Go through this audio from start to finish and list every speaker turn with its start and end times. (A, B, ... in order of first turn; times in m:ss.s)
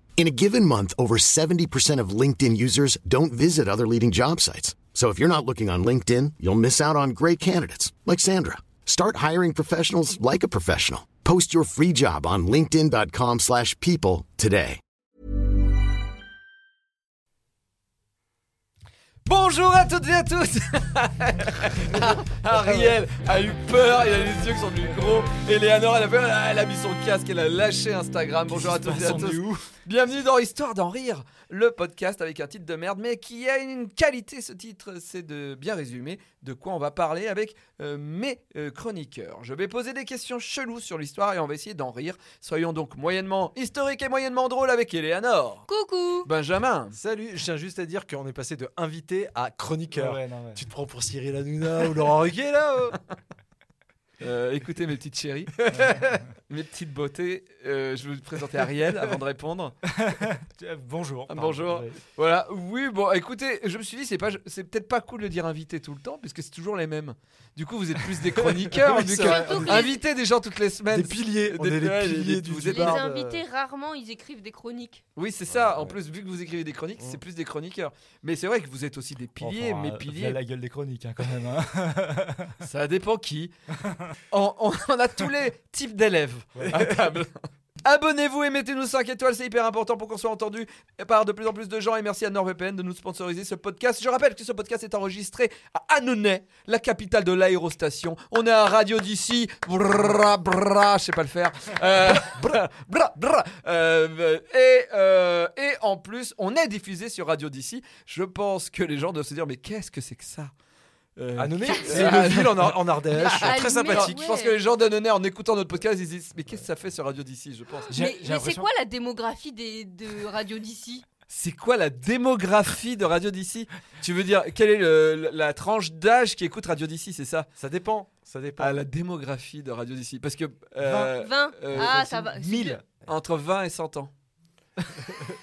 0:00.2-0:14.8 A
0:19.3-0:45.7 B
0:21.9-0:22.9 C
0:28.5-0:29.7 D
0:45.7-0:46.3 E
0:46.2-0:47.0 B
0:46.9-0:53.0 C
0:49.9-0:50.7 D
0:54.2-0:59.8 B
0:59.9-1:02.0 D
1:01.3-1:13.0 B
1:08.6-1:09.9 C
1:09.2-1:10.0 E
1:10.9-1:13.4 C
1:12.6-1:15.0 E
1:15.2-1:20.4 B
1:15.5-1:16.0 C
1:19.4-1:22.6 D
1:22.6-1:23.5 B
1:24.3-1:50.5 B
1:26.6-1:26.9 D
1:51.2-1:57.9 B
1:51.4-1:54.3 C
1:51.7-1:52.2 E
1:53.1-1:54.6 E
1:57.9-1:58.7 D
1:57.9-2:01.1 E
2:01.3-2:07.5 B
2:07.6-2:08.8 C
2:08.6-2:12.0 B
2:10.8-2:11.2 D
2:11.2-2:12.8 E
2:11.7-2:12.8 D
2:13.1-2:14.1 B